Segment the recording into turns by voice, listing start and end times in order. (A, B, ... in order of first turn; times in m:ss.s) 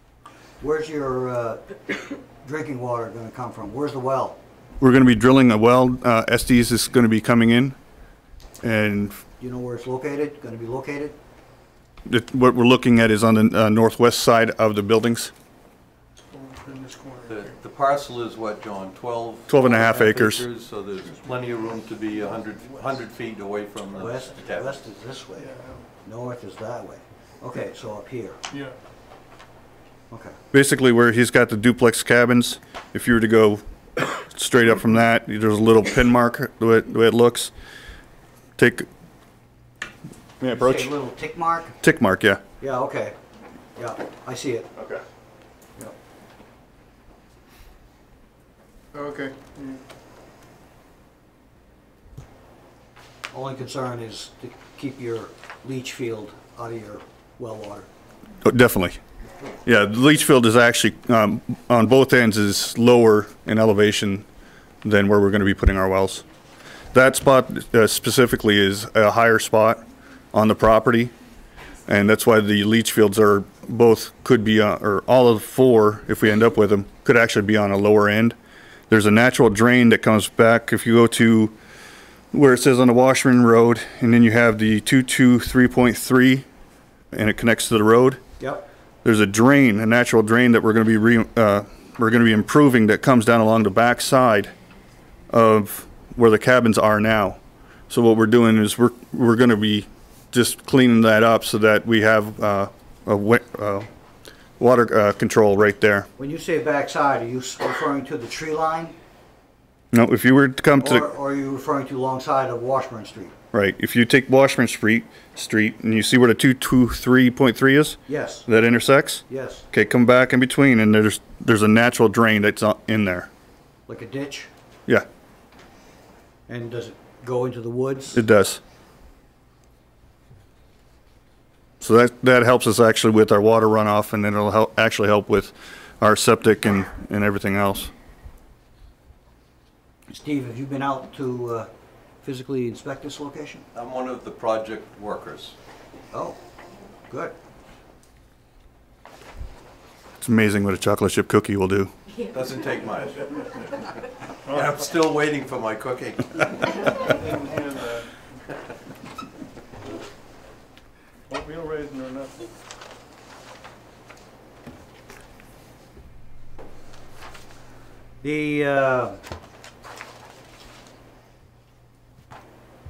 0:00.6-0:04.4 A
0:04.8-0:07.8 B
0:08.6-0:09.2 B
0:09.4-0:11.2 A
0:12.1-0:15.3 B
0:16.3-0:17.6 C
0:17.3-0:24.8 D
0:19.5-0:20.4 B
0:24.0-0:25.5 A
0:25.4-0:25.9 C
0:26.0-0:28.4 A
0:28.5-0:28.8 C
0:30.1-0:30.4 A
0:30.5-0:37.5 B
0:38.6-0:38.9 B
0:40.4-0:40.9 B
0:40.5-0:41.8 A
0:41.8-0:42.4 B
0:42.6-0:43.2 A
0:43.8-0:44.7 A
0:44.8-0:45.0 B
0:48.9-0:49.8 C
0:53.3-0:57.9 A
0:58.4-0:59.0 B
0:59.7-1:04.2 B
1:04.8-1:06.2 B
1:06.9-1:09.8 B
1:10.3-1:11.1 B
1:11.9-1:18.4 B
1:18.9-1:21.6 B
1:22.3-1:26.5 B
1:27.1-1:28.2 B
1:28.4-1:28.7 A
1:29.0-1:34.5 B
1:35.3-1:37.4 B
1:37.9-1:43.9 B
1:44.6-1:46.1 B
1:46.2-1:49.0 A
1:49.9-1:51.1 B
1:50.8-1:53.3 A
1:53.5-2:03.3 B
1:58.1-1:58.5 A
1:59.3-1:59.7 A
2:03.9-2:04.5 A
2:06.5-2:08.2 A
2:08.1-2:08.6 B
2:11.8-2:17.9 B
2:20.1-2:21.7 A
2:22.2-2:23.6 A
2:23.7-2:25.6 D
2:26.1-2:26.4 A
2:27.1-2:27.4 A
2:30.2-2:31.9 B
2:32.2-2:37.0 D
2:34.5-2:34.8 C
2:36.9-2:38.2 C
2:41.3-2:42.5 C
2:48.2-2:49.2 A